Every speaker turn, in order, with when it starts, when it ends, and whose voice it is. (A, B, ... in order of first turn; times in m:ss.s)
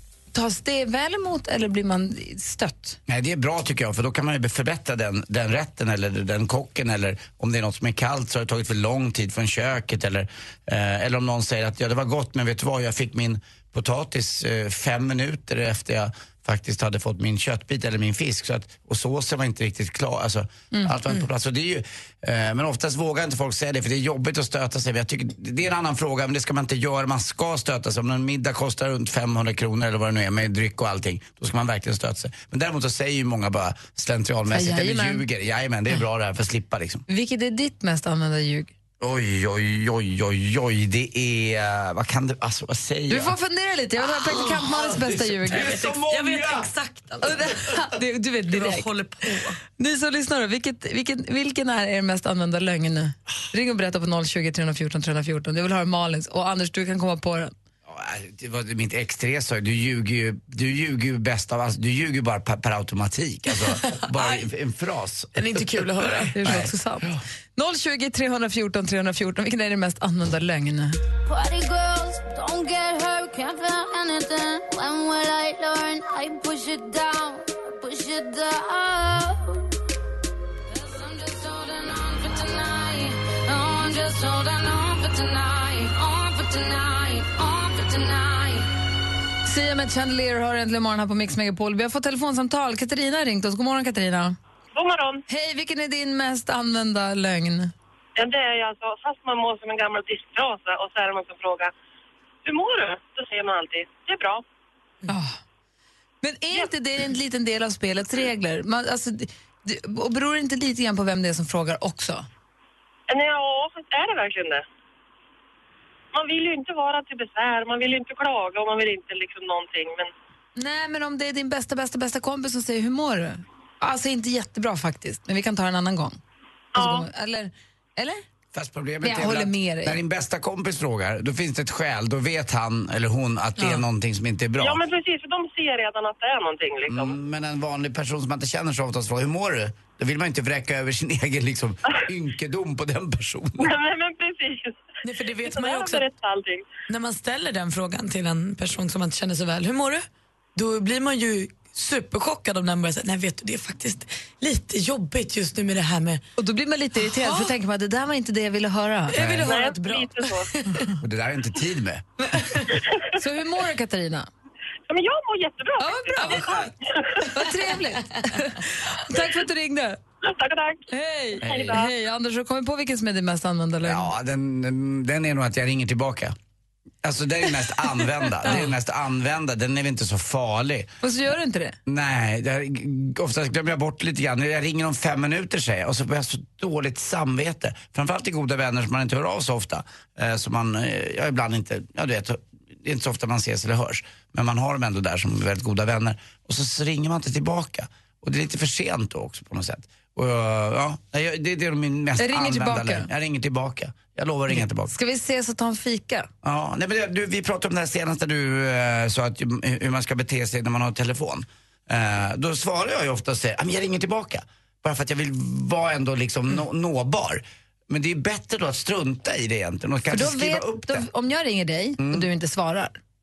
0:00.3-0:03.0 A
0:03.1-0:37.0 B
0:34.5-0:35.2 A
0:37.1-0:38.7 A
0:39.0-0:43.3 B
0:43.1-0:45.7 A
0:44.5-0:46.7 B
0:45.5-0:47.4 C
0:47.2-0:48.9 A
0:48.5-0:49.6 C
0:49.7-0:57.5 A
0:57.8-1:07.2 B
1:04.2-1:04.4 C
1:05.3-1:06.6 C
1:06.3-1:11.0 A
1:11.2-1:19.6 D
1:20.7-1:28.7 D
1:29.4-1:34.4 A
1:34.7-1:35.2 E
1:35.3-1:37.7 A
1:38.2-1:41.7 E
1:42.4-1:44.4 E
1:45.1-1:45.4 A
1:46.2-1:52.2 A
1:53.1-1:54.6 E
1:56.1-2:00.1 E
2:00.6-2:06.2 A
2:06.7-2:08.2 A
2:06.8-2:07.0 E
2:08.5-2:14.8 B
2:09.0-2:10.0 A
2:14.6-2:17.1 E
2:16.9-2:23.7 B
2:23.6-2:24.9 E
2:25.0-2:26.0 C
2:25.4-2:26.6 E
2:26.9-2:36.2 C
2:36.4-2:39.2 A
2:37.0-2:37.5 C
2:39.1-2:40.9 C
2:39.2-2:39.5 B
2:39.4-2:40.5 E
2:41.0-2:42.0 B
2:42.2-2:42.7 C
2:43.1-2:44.3 A
2:44.9-2:47.2 E
2:45.8-2:50.0 A
2:50.2-2:50.9 E
2:50.9-2:54.1 A
2:51.4-2:51.8 B
2:51.4-2:51.9 E
2:53.8-2:56.3 B
2:57.0-3:00.9 B
3:01.0-3:01.8 A
3:01.8-3:24.9 B
3:22.2-3:23.1 A
3:24.5-3:26.3 A
3:26.4-3:41.0 B
3:40.1-3:43.0 A
3:42.0-3:42.3 B